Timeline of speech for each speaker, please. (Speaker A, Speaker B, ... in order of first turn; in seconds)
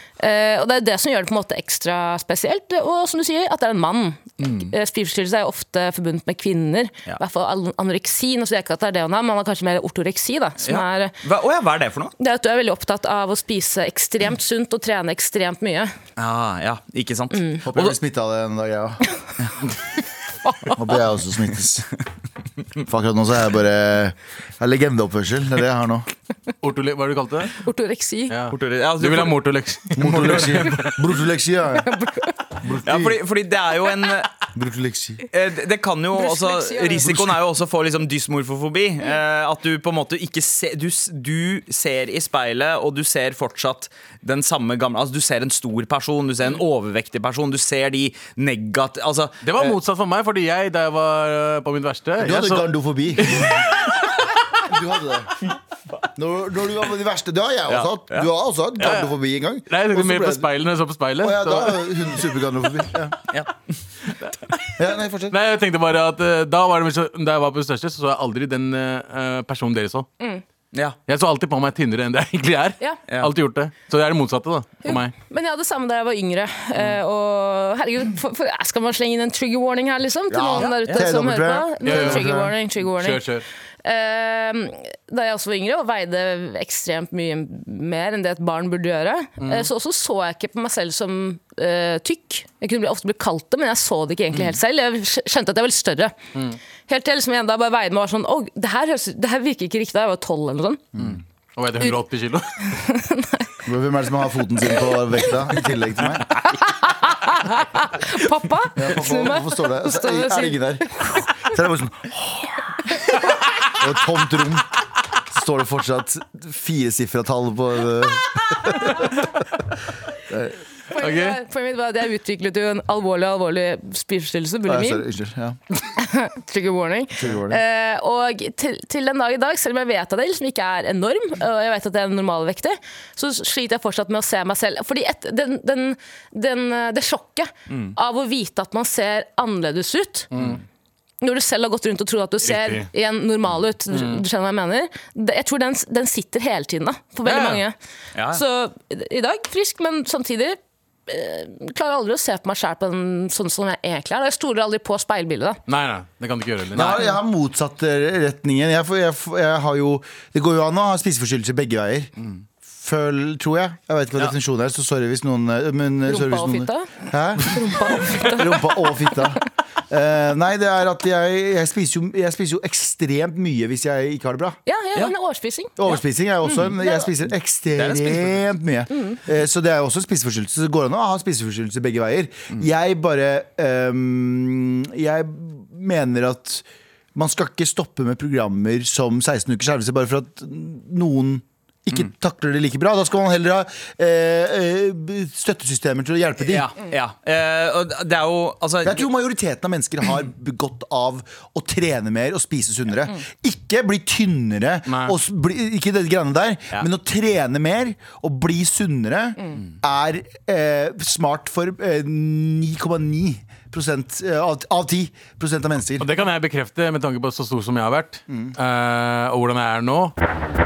Speaker A: 0.2-11.1, 12.2-15.9, 17.3-17.6, 20.4-20.8, 27.6-28.3, 31.8-32.4, 36.1-37.1, 74.8-83.2, 83.8-96.1, 96.9-100.8, 102.7-103.5, 106.6-111.5, 120.9-125.0, 125.9-140.3, 141.2-147.8, 148.3-155.6, 166.1-168.7, 174.7-177.1
Speaker B: 4.4-4.7, 10.6-12.1, 16.2-17.9, 28.5-31.0, 32.8-34.3, 35.3-49.8, 57.7-58.3, 70.7-71.0, 73.1-73.3, 137.7-137.9, 148.1-148.4, 156.7-157.0, 177.8-178.4, 196.4-199.1
Speaker C: 17.6-19.0, 20.7-21.9, 22.8-26.1, 30.0-31.9, 32.6-33.2, 34.5-35.2, 37.0-37.3, 52.2-53.6, 54.6-55.4, 56.1-60.5, 61.2-63.1, 64.8-65.4, 80.3-82.5, 100.9-101.2, 103.6-106.4, 108.8-112.5, 113.7-114.7, 115.3-119.1, 120.3-120.6, 124.7-125.6, 127.2-127.6, 156.7-162.1, 162.7-174.6, 175.8-196.7, 198.8-216.1, 218.3-218.6
Speaker D: 26.6-27.6, 28.3-30.9, 49.4-53.6, 58.8-59.1, 59.7-61.9, 64.2-64.7, 65.3-70.1, 71.1-75.1, 81.8-83.5, 89.4-89.7, 101.5-102.7, 121.0-121.4, 140.3-140.6, 142.4-142.9, 143.9-144.2, 147.2-147.6, 155.7-157.1, 204.9-205.1, 216.0-220.1